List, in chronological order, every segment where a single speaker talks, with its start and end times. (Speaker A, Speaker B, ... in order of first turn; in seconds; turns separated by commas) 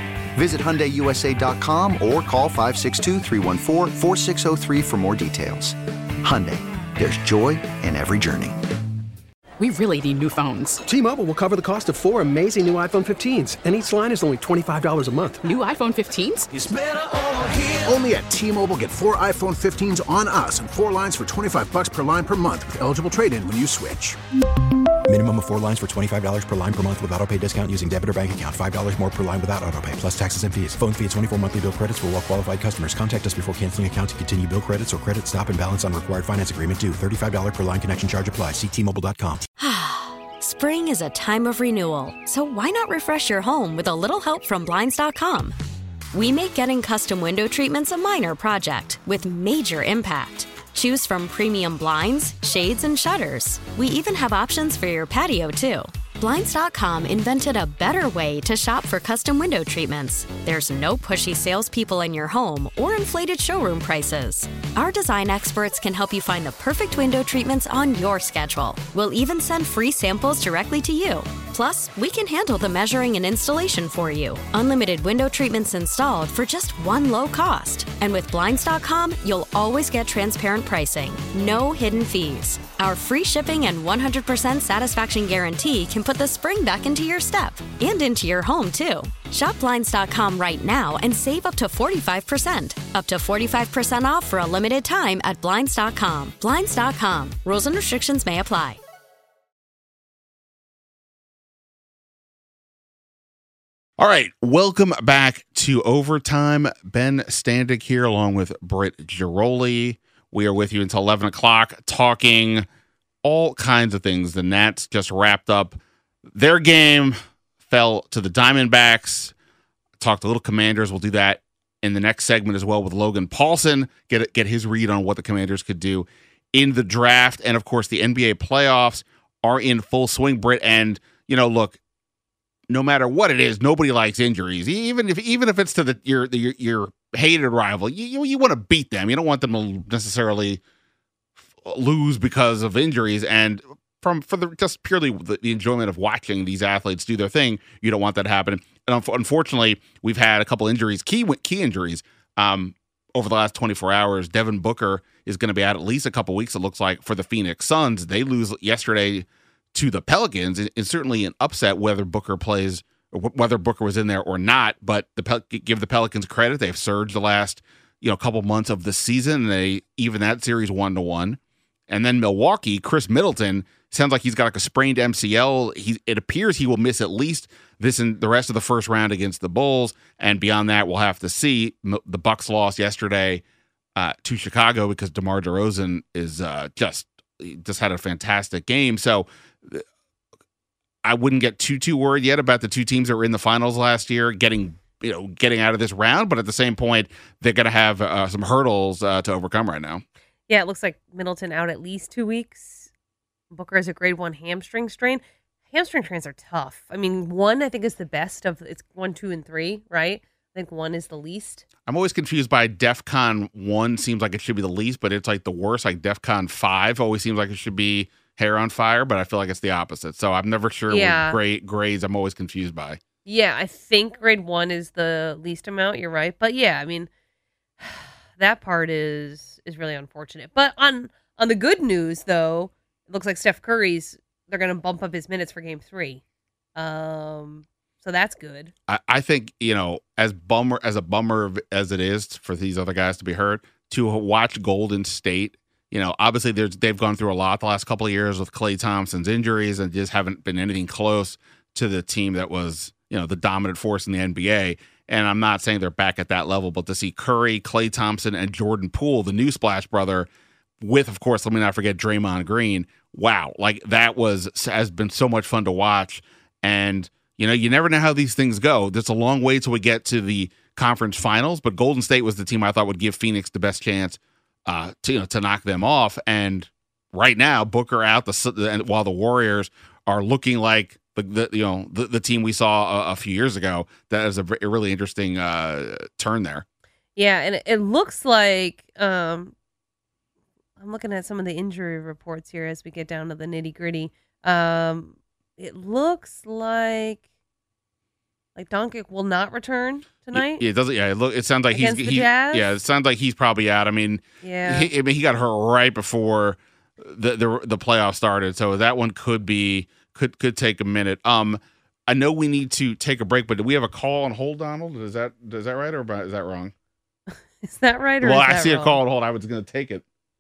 Speaker A: 0.3-8.6, Speaker B: 9.6-10.8, Speaker C: 10.8-15.4, Speaker B: 15.4-16.5, Speaker D: 17.4-24.2, Speaker E: 25.1-39.5, Speaker F: 39.6-45.5, Speaker F: 46.1-98.8, Speaker G: 104.0-112.6, Speaker G: 113.2-115.8, Speaker G: 116.3-119.3, Speaker G: 120.0-131.8, Speaker G: 132.7-140.6, Speaker G: 141.6-183.4, Speaker G: 183.9-189.8, Speaker G: 191.0-200.0, Speaker H: 200.5-202.9, Speaker H: 203.5-211.6, Speaker G: 211.9-223.0, Speaker H: 220.9-221.4, Speaker H: 223.2-227.1, Speaker H: 227.8-236.2, Speaker H: 236.8-238.7, Speaker G: 238.9-260.3, Speaker G: 260.8-286.6, Speaker H: 287.1-289.5, Speaker H: 290.8-297.2, Speaker H: 298.5-300.6, Speaker G: 300.3-316.7, Speaker H: 301.7-302.7, Speaker H: 304.4-304.9, Speaker H: 317.6-319.0, Speaker G: 318.2-320.0